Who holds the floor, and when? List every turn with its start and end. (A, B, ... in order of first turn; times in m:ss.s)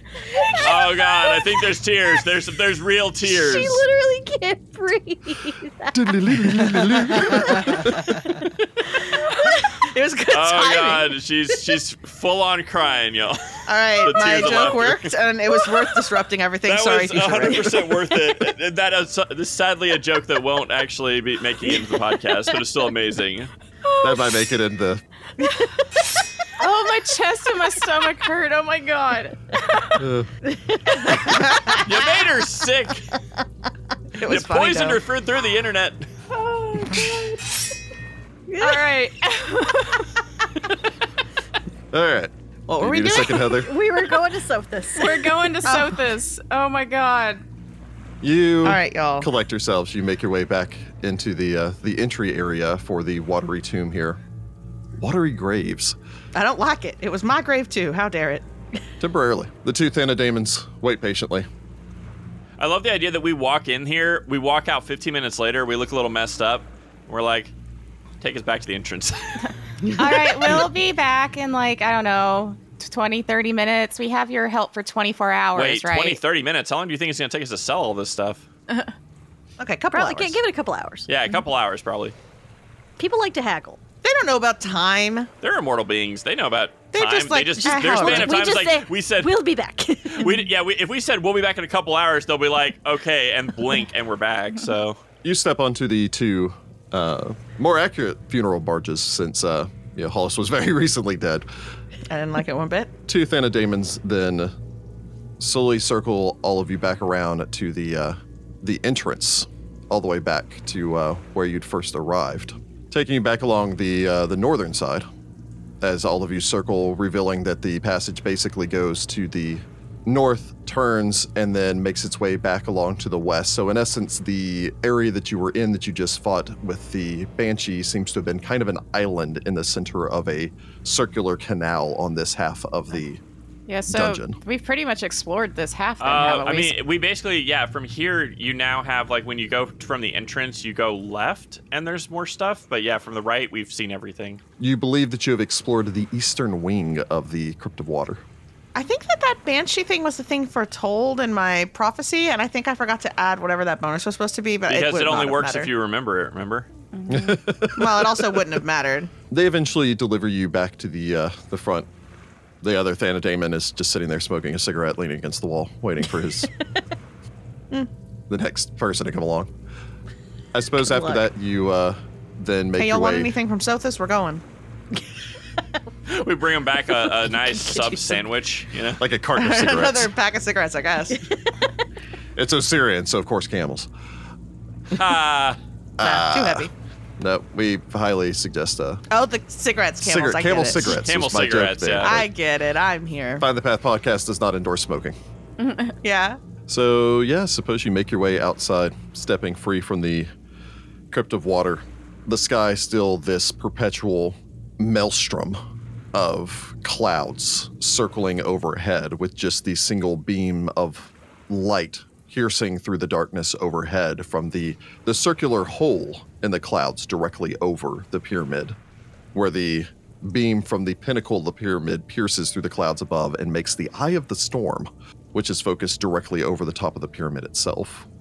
0:00.2-0:01.6 A
0:00.4-0:03.8 B
0:03.3-0:09.7 A
0:05.9-0:07.9 C
0:09.7-0:11.1 D
0:10.3-0:16.1 B
0:13.7-0:18.0 D
0:16.7-0:23.5 B
0:23.9-0:24.4 E
0:24.0-0:25.0 C
0:26.6-0:30.0 E
0:30.0-0:30.3 C
0:30.5-0:31.8 A
0:31.5-0:31.8 D
0:31.7-0:33.2 B
0:34.2-0:35.0 D
0:34.2-0:36.1 B
0:36.3-0:37.4 E
0:38.5-0:38.9 A
0:38.6-0:40.1 E
0:41.9-0:43.7 C
0:42.7-0:43.6 D
0:43.5-0:45.4 A
0:45.0-0:47.4 E
0:45.7-0:46.0 D
0:48.2-0:54.2 C
0:48.6-0:49.3 D
0:55.0-0:56.0 C
0:56.4-0:58.4 D
0:59.0-1:01.5 C
1:02.6-1:07.5 B
1:08.2-1:09.5 B
1:09.8-1:10.5 D
1:10.0-1:16.2 E
1:15.6-1:18.4 B
1:19.6-1:20.4 D
1:19.9-1:21.1 A
1:21.1-1:22.2 B
1:23.0-1:23.8 A
1:24.0-1:25.3 D
1:25.4-1:29.4 B
1:26.9-1:28.4 D
1:27.6-1:30.4 A
1:30.1-1:35.0 B
1:35.2-1:41.5 C
1:42.1-1:42.9 D
1:43.1-1:44.5 C
1:45.4-1:55.1 C
1:55.8-2:13.2 C
2:13.7-2:16.8 E
2:13.9-2:14.4 C
2:16.0-2:24.4 B
2:24.6-2:28.2 C
2:28.8-2:35.7 D
2:34.7-2:36.7 B
2:36.9-2:37.4 E
2:37.1-2:38.6 C
2:37.8-2:39.1 D
2:39.3-2:41.9 C
2:42.6-2:46.5 C
2:48.3-2:49.5 C
2:50.5-2:53.3 C
2:50.9-2:51.2 A
2:52.8-2:54.4 D
2:56.1-2:59.0 B
2:59.0-3:00.1 C
2:59.4-3:01.2 D
3:02.4-3:03.9 C
3:04.9-3:05.6 B
3:06.0-3:09.0 C
3:06.0-3:06.7 D
3:09.1-3:11.0 D
3:10.0-3:12.3 C
3:10.9-3:12.2 B
3:12.0-3:13.4 D
3:13.4-3:15.2 C
3:15.6-3:16.0 E
3:16.0-3:16.4 D
3:16.7-3:20.3 C
3:21.1-3:25.6 C
3:26.1-3:38.8 C
3:39.3-3:48.1 C